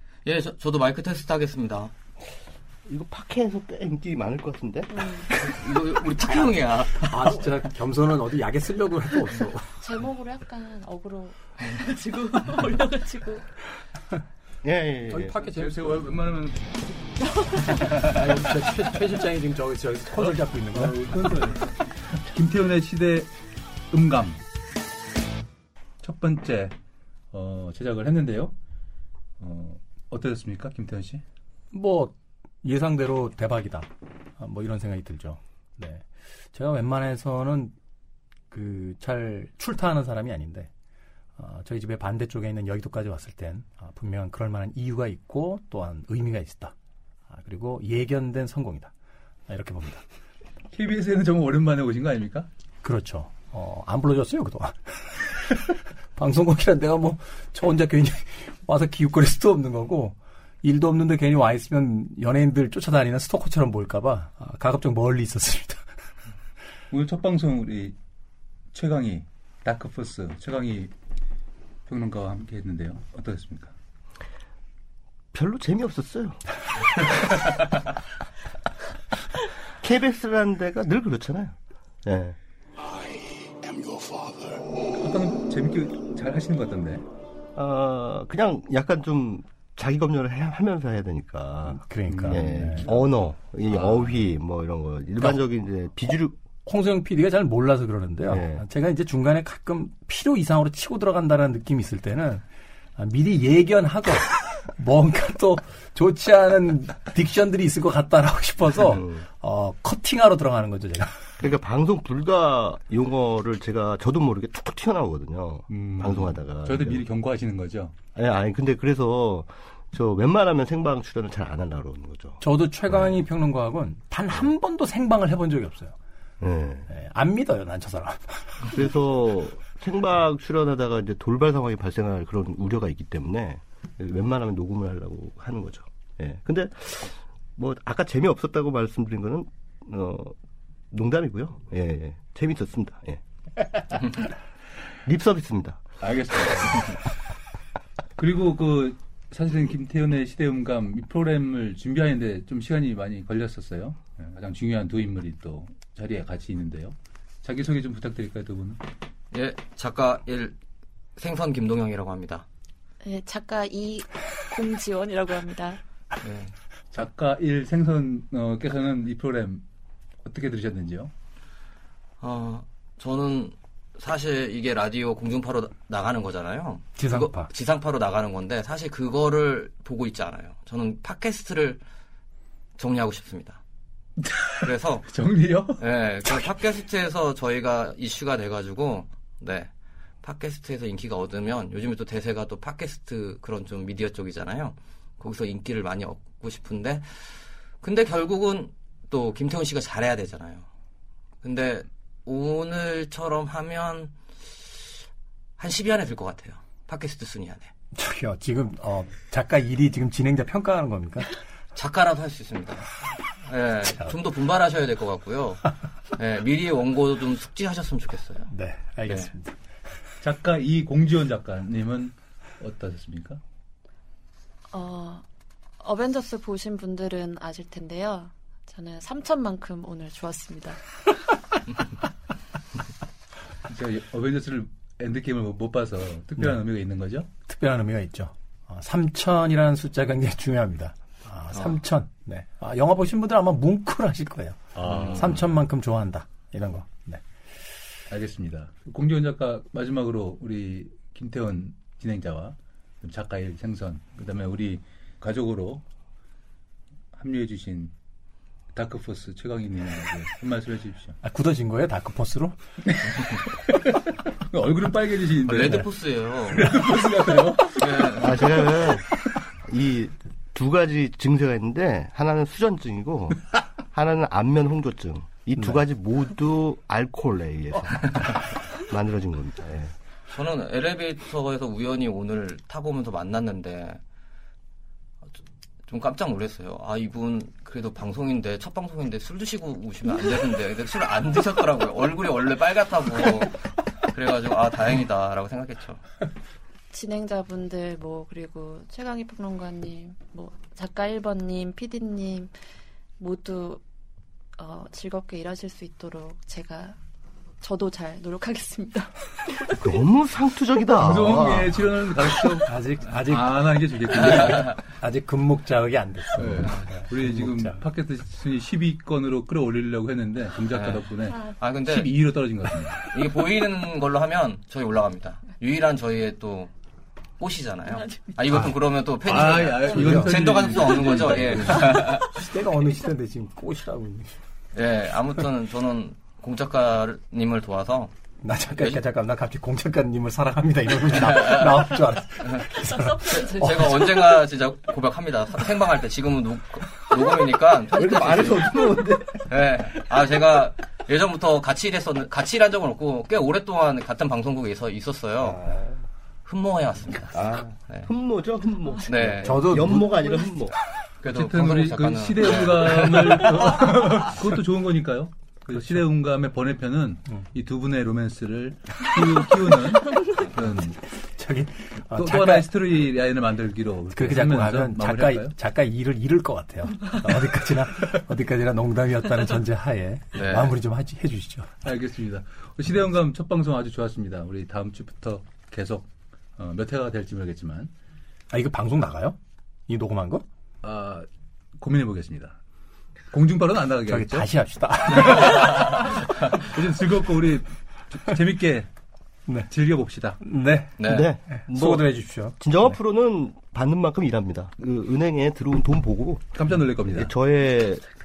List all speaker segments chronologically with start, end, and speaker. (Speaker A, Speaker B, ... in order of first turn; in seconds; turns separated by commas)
Speaker A: 0.2-1.9, Speaker B: 2.9-5.5, Speaker C: 4.9-5.3, Speaker A: 5.4-7.5, Speaker D: 7.1-9.6, Speaker C: 9.8-13.4, Speaker B: 14.6-15.4, Speaker D: 15.1-15.7, Speaker E: 15.4-16.8, Speaker C: 17.2-18.1, Speaker D: 18.1-20.9, Speaker E: 20.1-23.3, Speaker E: 23.9-24.4, Speaker E: 26.0-26.7, Speaker E: 27.3-28.5, Speaker E: 29.4-31.2, Speaker D: 31.7-37.7, Speaker D: 38.5-40.7, Speaker D: 41.4-46.7, Speaker D: 47.3-48.9, Speaker D: 49.5-50.0, Speaker E: 50.7-52.5, Speaker D: 52.8-65.8, Speaker E: 66.9-68.0, Speaker E: 68.7-70.9, Speaker E: 71.9-73.7, Speaker B: 75.3-76.4, Speaker B: 79.8-81.5, Speaker B: 82.0-82.3, Speaker E: 84.9-87.0, Speaker B: 87.5-96.3, Speaker D: 91.7-92.9, Speaker E: 92.1-92.9, Speaker D: 96.6-102.4, Speaker B: 98.2-98.7, Speaker D: 103.0-111.1, Speaker B: 108.8-109.2, Speaker B: 111.4-117.0, Speaker E: 115.7-117.9, Speaker B: 118.1-123.2, Speaker D: 122.4-126.0, Speaker B: 126.4-126.9, Speaker D: 126.9-128.7, Speaker B: 128.7-140.3, Speaker B: 140.9-143.2, Speaker B: 145.1-145.8, Speaker E: 146.0-147.0, Speaker E: 148.2-158.8, Speaker A: 159.3-160.6, Speaker A: 161.2-162.4, Speaker C: 163.0-165.8, Speaker A: 166.2-166.5, Speaker E: 166.9-169.6, Speaker E: 170.2-171.1, Speaker A: 172.2-181.8, Speaker D: 177.1-177.3, Speaker A: 182.8-183.6, Speaker E: 184.2-185.8, Speaker A: 184.6-185.1, Speaker A: 185.8-189.7, Speaker A: 190.2-197.1, Speaker A: 197.8-200.7, Speaker A: 201.4-204.1, Speaker A: 205.6-207.7, Speaker D: 207.9-211.3, Speaker A: 211.7-218.5, Speaker D: 218.5-219.6, Speaker A: 219.1-219.3, Speaker E: 220.2-223.4, Speaker C: 224.7-225.2, Speaker C: 225.8-230.8, Speaker E: 233.7-237.3, Speaker D: 237.5-244.6, Speaker A: 241.5-241.8, Speaker E: 244.7-245.5, Speaker A: 244.8-245.4, Speaker D: 245.2-247.2, Speaker E: 248.1-255.8, Speaker E: 257.1-257.9, Speaker E: 258.7-261.1, Speaker D: 261.2-262.6, Speaker E: 262.8-265.9, Speaker A: 265.4-266.7, Speaker E: 266.5-268.4, Speaker A: 267.8-268.4, Speaker B: 268.2-269.1, Speaker B: 269.6-279.9, Speaker A: 278.1-278.5, Speaker A: 280.3-284.0, Speaker A: 285.9-293.6, Speaker A: 294.1-296.0, Speaker C: 296.9-302.5, Speaker C: 303.2-303.8, Speaker C: 304.6-307.0, Speaker C: 307.6-309.9, Speaker B: 309.8-311.7, Speaker E: 311.0-314.8, Speaker D: 312.7-313.4, Speaker A: 314.5-314.8, Speaker D: 314.9-317.8, Speaker E: 316.3-323.1, Speaker A: 320.7-322.1, Speaker A: 323.1-326.7, Speaker A: 327.4-332.3, Speaker E: 329.2-332.1, Speaker D: 332.3-334.4, Speaker A: 334.7-338.1, Speaker D: 338.4-343.2, Speaker A: 338.7-339.0, Speaker A: 341.0-348.9, Speaker B: 347.9-349.5, Speaker A: 349.5-355.7, Speaker B: 355.5-355.9, Speaker A: 356.4-358.1, Speaker B: 357.3-360.7, Speaker A: 359.1-360.0, Speaker D: 359.5-359.9, Speaker A: 361.2-363.4, Speaker E: 361.3-370.9, Speaker A: 370.4-370.8, Speaker D: 370.8-372.6, Speaker E: 371.9-375.5, Speaker D: 374.1-381.8, Speaker A: 380.3-380.8, Speaker E: 381.8-387.9, Speaker D: 388.5-390.4, Speaker E: 390.8-391.2, Speaker E: 391.8-392.6, Speaker E: 393.3-394.5, Speaker D: 394.1-395.3, Speaker E: 395.1-398.9, Speaker E: 399.7-400.4, Speaker D: 400.4-402.6, Speaker A: 401.0-401.4, Speaker B: 401.1-406.6, Speaker E: 406.5-407.3, Speaker B: 407.1-408.0